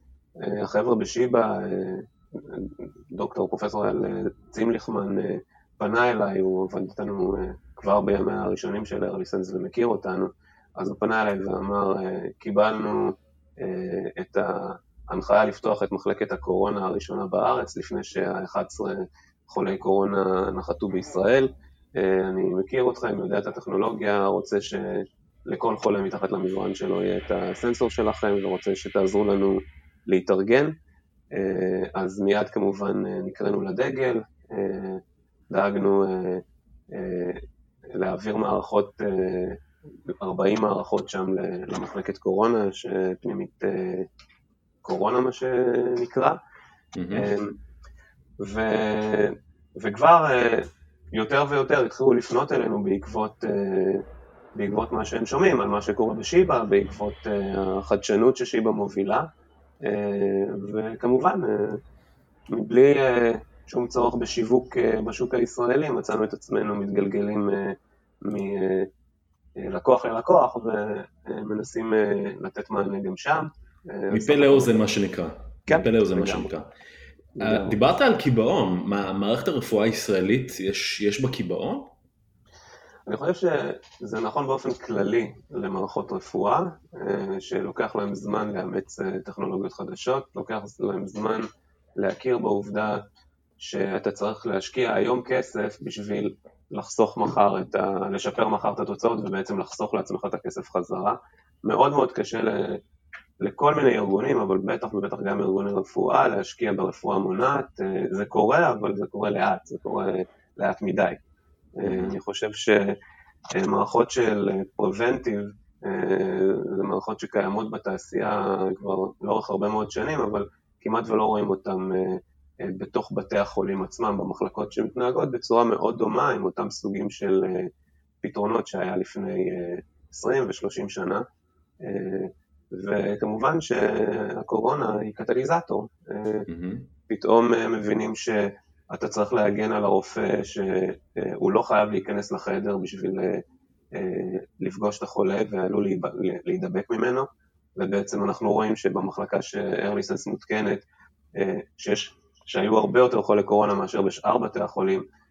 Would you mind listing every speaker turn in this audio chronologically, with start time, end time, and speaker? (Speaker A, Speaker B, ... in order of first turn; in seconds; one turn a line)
Speaker A: 0.4-30.7
Speaker A: 31.3-44.1
Speaker A: 44.8-46.4
Speaker B: 46.9-47.3
Speaker A: 47.1-47.6
Speaker A: 48.4-54.0
Speaker A: 54.5-59.3
Speaker A: 59.8-61.8
Speaker A: 62.5-68.9
Speaker A: 69.6-74.8
Speaker B: 74.1-76.7
Speaker A: 75.7-76.5
Speaker A: 77.4-77.7
Speaker B: 77.4-81.9
Speaker A: 83.1-93.0
Speaker A: 93.6-102.8
Speaker A: 103.4-111.2
Speaker A: 111.8-113.0
Speaker B: 111.8-112.1
Speaker A: 113.5-131.2
Speaker A: 131.8-136.5
Speaker B: 136.5-136.9
Speaker A: 137.1-150.8
Speaker A: 151.3-155.0